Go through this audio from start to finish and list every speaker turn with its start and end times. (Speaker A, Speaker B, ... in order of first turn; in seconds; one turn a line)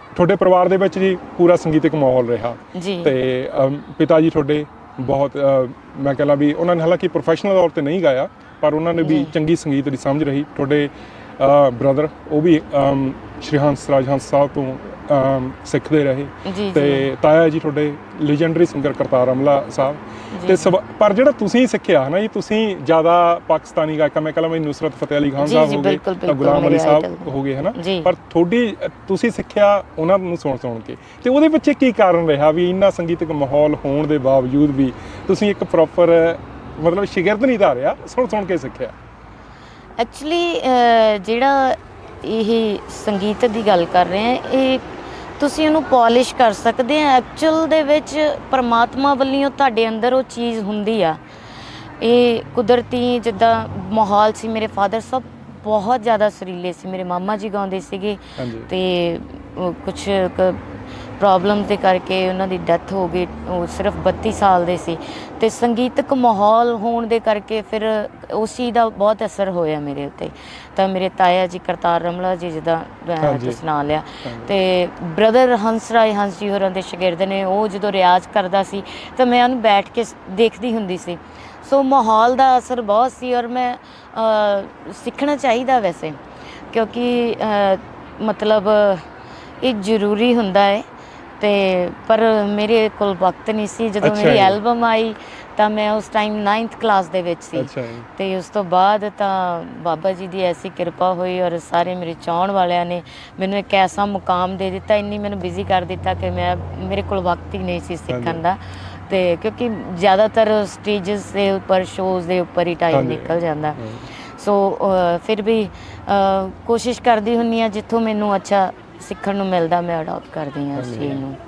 Speaker A: 0.1-38.9
Speaker B: 2.7-3.1
Speaker B: 9.0-9.3
Speaker B: 16.4-17.1
Speaker B: 20.3-20.7
Speaker B: 25.4-28.1
Speaker B: 40.0-44.9
Speaker B: 45.4-51.2
Speaker B: 52.0-60.6
Speaker A: 58.4-58.7
Speaker B: 61.2-86.2
Speaker A: 73.2-73.6
Speaker A: 74.2-74.5
Speaker B: 86.7-89.1
Speaker B: 89.6-90.9
Speaker B: 91.4-121.4
Speaker A: 94.0-94.6
Speaker A: 97.6-98.1
Speaker A: 108.1-108.4
Speaker A: 112.9-114.1
Speaker A: 120.8-121.2